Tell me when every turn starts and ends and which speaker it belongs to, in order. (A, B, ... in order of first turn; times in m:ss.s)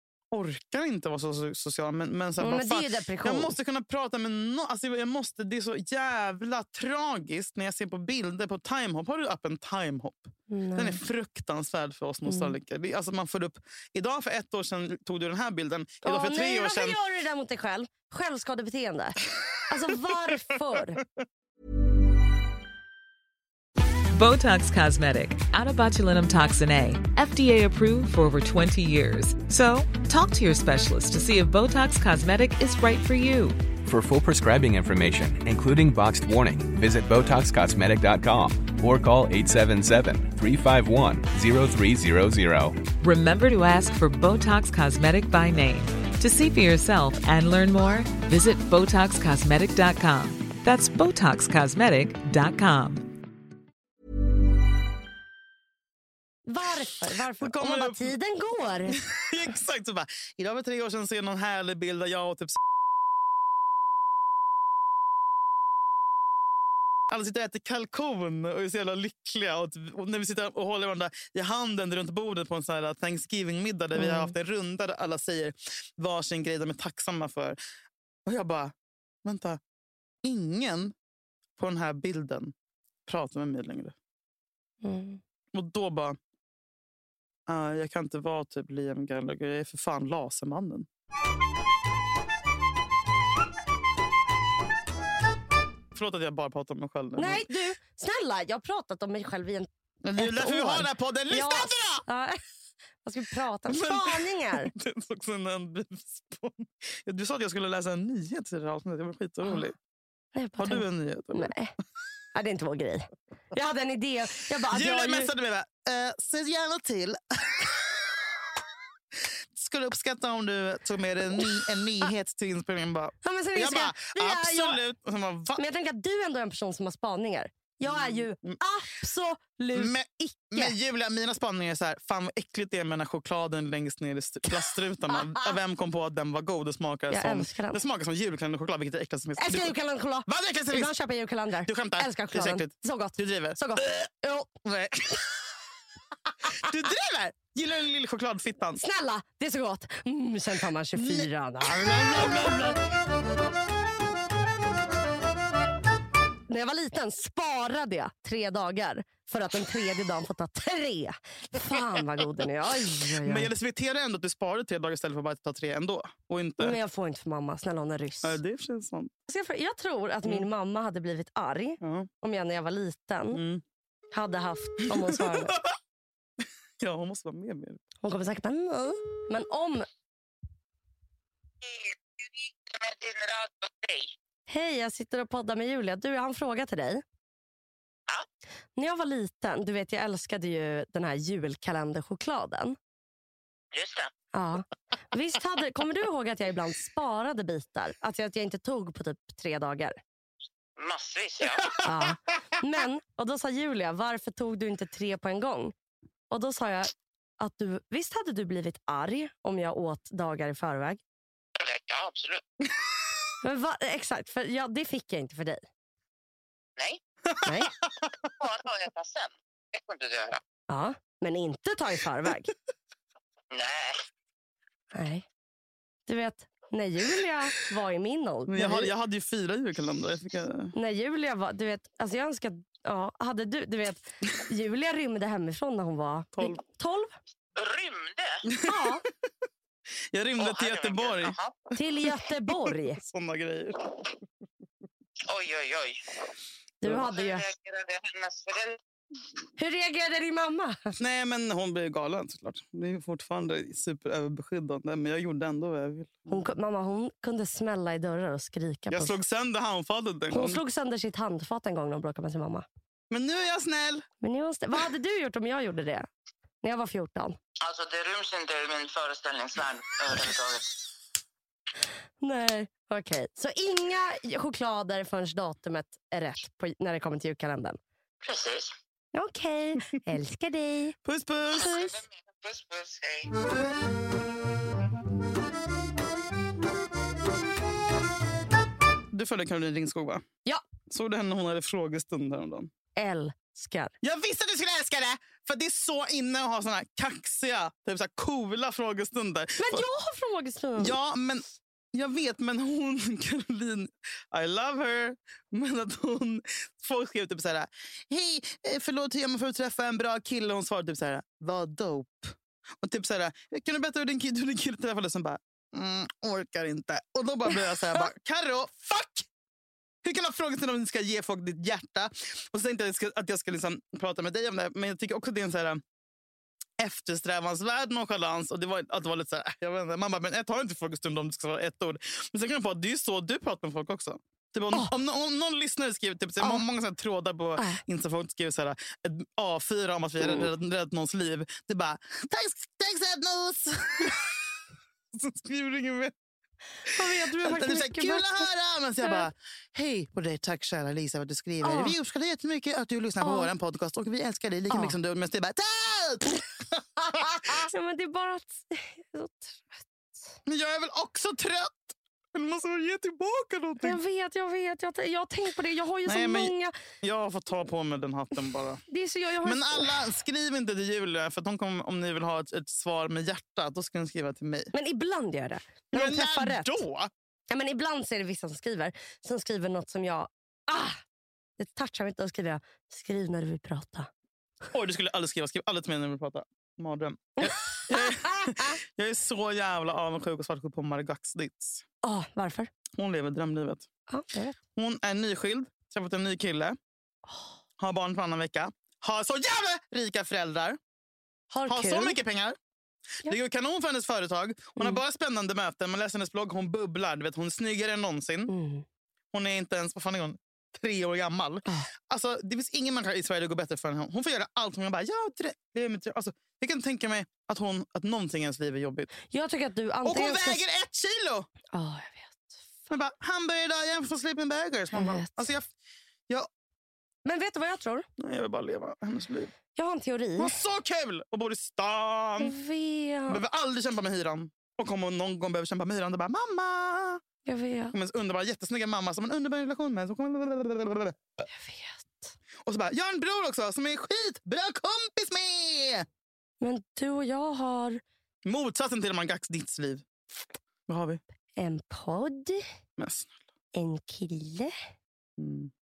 0:00.3-0:17.0 A
0:02.4-0:03.5 B
0:10.5-0:11.0 B
0:12.2-0:12.5 B
0:16.0-0:21.0 B
0:24.1-0:33.6 C
0:33.8-0:42.8 D
0:43.0-0:53.1 C
0:56.5-0:59.0 B
0:57.4-0:58.1 A
0:58.9-1:02.6 A
1:07.1-1:17.6 A
1:13.9-1:14.3 B
1:18.2-1:19.6 A
1:20.2-1:20.9 A
1:21.6-1:22.5 A
1:23.0-1:23.9 A
1:24.8-1:25.2 B
1:25.5-1:26.2 A
1:27.5-1:30.9 A
1:35.9-1:37.4 A
1:37.1-1:42.4 B
1:40.0-1:42.0 A
1:43.0-1:44.7 B
1:43.7-1:49.7 A
1:50.3-1:51.7 B
1:50.6-1:51.5 A
1:52.3-1:55.3 B
1:54.7-1:58.1 A
1:59.1-2:05.6 A
2:03.2-2:04.8 B
2:05.5-2:10.7 B
2:07.8-2:08.6 A
2:09.7-2:20.9 A
2:15.2-2:15.5 B
2:17.1-2:17.8 B
2:19.4-2:24.6 B
2:21.6-2:25.3 A
2:26.4-2:28.8 A
2:28.8-2:32.5 B
2:31.0-2:32.8 A
2:36.5-2:43.5 B
2:43.1-2:46.8 A
2:46.6-2:48.4 B
2:48.2-2:49.1 A
2:49.3-2:53.4 B
2:51.8-2:52.1 A
2:53.3-2:53.6 A
2:54.1-2:55.6 B
2:54.8-2:55.7 A
2:56.4-2:57.8 A
2:58.0-2:59.8 B
3:01.6-3:04.1 E
3:04.5-3:07.0 B
3:08.8-3:12.8 B
3:13.7-3:14.1 E
3:14.3-3:20.0 B
3:20.8-3:21.8 E
3:21.8-3:25.7 B
3:26.3-3:31.0 B
3:31.6-3:32.5 E
3:33.4-3:35.6 B
3:37.4-3:37.7 B
3:38.2-3:40.4 E
3:40.7-3:42.5 B
3:43.5-3:44.0 E
3:44.9-3:45.3 B
3:46.1-3:48.9 B
3:48.5-3:50.7 A
3:50.7-3:57.1 B
3:56.3-3:56.6 A
3:57.6-3:58.4 E
3:58.5-3:59.1 A
3:58.6-3:59.0 B
4:00.1-4:01.4 A
4:00.4-4:02.1 E
4:01.8-4:03.0 B
4:02.6-4:03.8 A
4:05.2-4:06.4 E
4:06.8-4:07.5 B
4:06.9-4:08.8 E
4:09.6-4:11.0 B
4:11.0-4:16.4 A
4:16.3-4:19.2 B
4:18.9-4:20.6 A
4:20.3-4:22.6 B
4:23.1-4:24.1 A
4:24.2-4:26.1 B
4:26.6-4:27.4 B
4:27.6-4:30.8 E
4:32.2-4:37.8 B
4:38.2-4:38.7 E
4:39.1-4:41.0 B
4:41.0-4:41.9 A
4:41.5-4:43.3 E
4:49.1-4:50.2 A
4:50.9-4:52.7 A
4:53.0-4:53.9 B
4:54.0-4:59.8 A
4:59.6-5:01.0 B
5:00.8-5:19.3 A
5:20.0-5:25.8 A
5:26.8-5:44.5 A
5:37.6-5:37.8 B
5:40.2-5:40.5 B
5:45.1-5:46.1 A
5:46.8-5:48.5 B
5:46.9-5:57.7 A
5:49.0-5:49.3 B
5:51.6-5:51.9 B
5:53.2-5:53.5 B
5:54.7-5:55.0 B
5:57.2-6:00.4 B
6:00.4-6:04.0 A
6:03.8-6:06.7 B
6:06.0-6:08.8 A
6:08.9-6:10.1 B
6:09.4-6:14.7 A
6:14.7-6:16.8 B
6:15.9-6:17.1 A
6:17.5-6:21.0 B
6:21.6-6:24.1 B
6:24.7-6:31.8 A
6:27.4-6:28.8 B
6:32.0-6:32.7 B
6:33.0-6:33.9 A
6:34.1-6:34.6 B
6:34.7-6:36.8 A
6:37.8-6:40.8 A
6:41.5-6:42.2 B
6:41.7-6:42.6 A
6:43.2-6:48.5 A
6:48.5-6:48.8 B
6:49.3-6:59.1 A
6:59.3-7:00.6 B
7:00.0-7:01.5 A
7:01.7-7:02.7 B
7:02.9-7:05.7 A
7:04.9-7:05.5 B
7:07.2-7:08.0 B
7:08.2-7:09.5 A
7:09.7-7:10.6 B
7:10.4-7:12.6 A
7:12.4-7:13.4 B
7:13.3-7:17.2 A
7:17.4-7:17.9 B
7:17.9-7:21.4 A
7:21.5-7:22.3 B
7:22.6-7:26.1 A
7:26.6-7:28.0 B
7:28.4-7:30.0 A
7:30.9-7:31.2 A
7:31.6-7:32.6 B
7:33.0-7:33.3 A
7:33.7-7:34.7 B
7:35.4-7:35.7 A